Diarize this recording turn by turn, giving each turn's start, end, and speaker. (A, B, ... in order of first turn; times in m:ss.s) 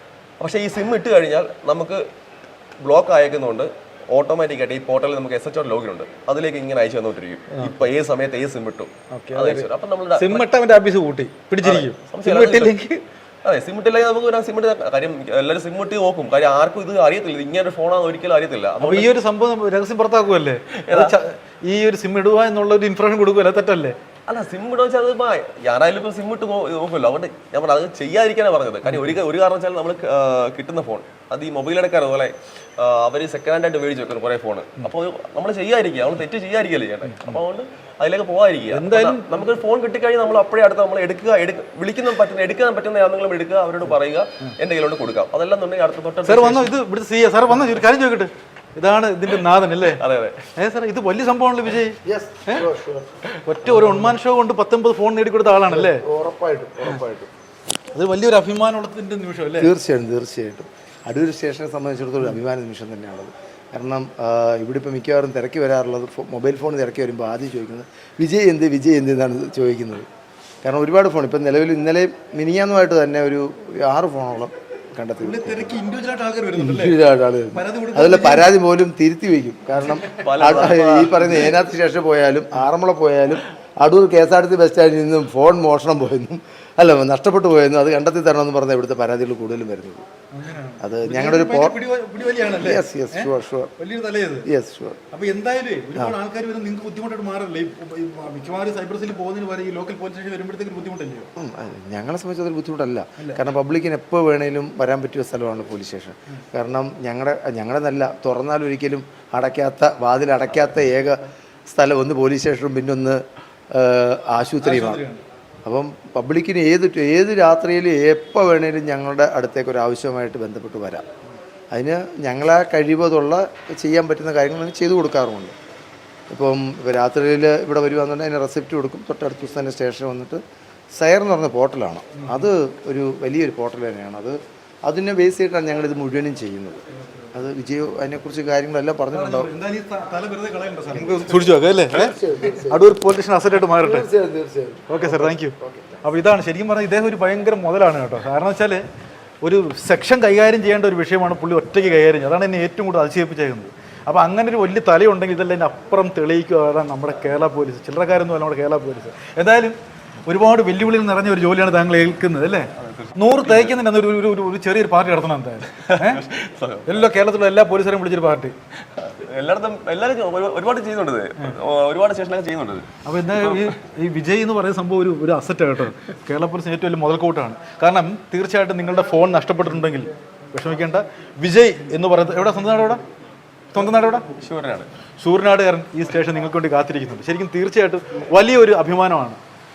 0:00.4-0:02.0 A
0:02.8-0:10.5 A
0:07.5-0:07.8 B
0:09.1-0:13.0 B
0:11.6-0:12.8 A
0:13.4-0:19.1 A
0:18.8-0:24.0 B
0:20.9-0:21.2 A
0:24.3-0:46.7 A
0:28.9-0:29.2 B
0:37.1-0:37.4 B
0:38.7-0:39.3 B
0:46.2-0:50.0 B
0:49.9-0:50.4 A
0:50.6-0:52.7 B
0:52.0-0:53.1 C
0:53.4-0:56.0 B
0:53.7-0:54.0 C
0:55.7-0:57.3 C
0:57.9-0:59.7 B
0:59.6-1:10.1 C
1:10.6-1:15.8 C
1:15.2-1:18.5 B
1:16.6-1:30.0 C
1:19.9-1:20.6 B
1:20.2-1:21.6 A
1:30.3-1:34.5 B
1:30.8-1:31.8 C
1:32.6-1:33.7 C
1:34.5-1:35.0 C
1:35.1-1:41.3 B
1:41.4-1:55.0 C
1:43.2-1:43.4 B
1:54.6-1:55.2 B
1:55.6-2:01.1 C
2:01.7-2:05.5 C
2:06.3-2:10.4 C
2:11.0-2:16.8 C
2:12.2-2:12.4 B
2:17.3-2:19.5 C
2:19.1-2:22.2 B
2:20.9-2:22.8 C
2:22.7-2:24.1 B
2:23.8-2:26.0 C
2:24.9-2:28.8 B
2:29.4-2:46.2 B
2:42.8-2:43.8 A
2:45.8-2:47.1 A
2:46.9-2:48.5 B
2:48.9-2:52.9 A
2:53.0-3:03.0 B
2:53.4-2:53.7 A
3:03.7-3:04.2 B
3:04.4-3:04.9 A
3:05.2-3:09.4 B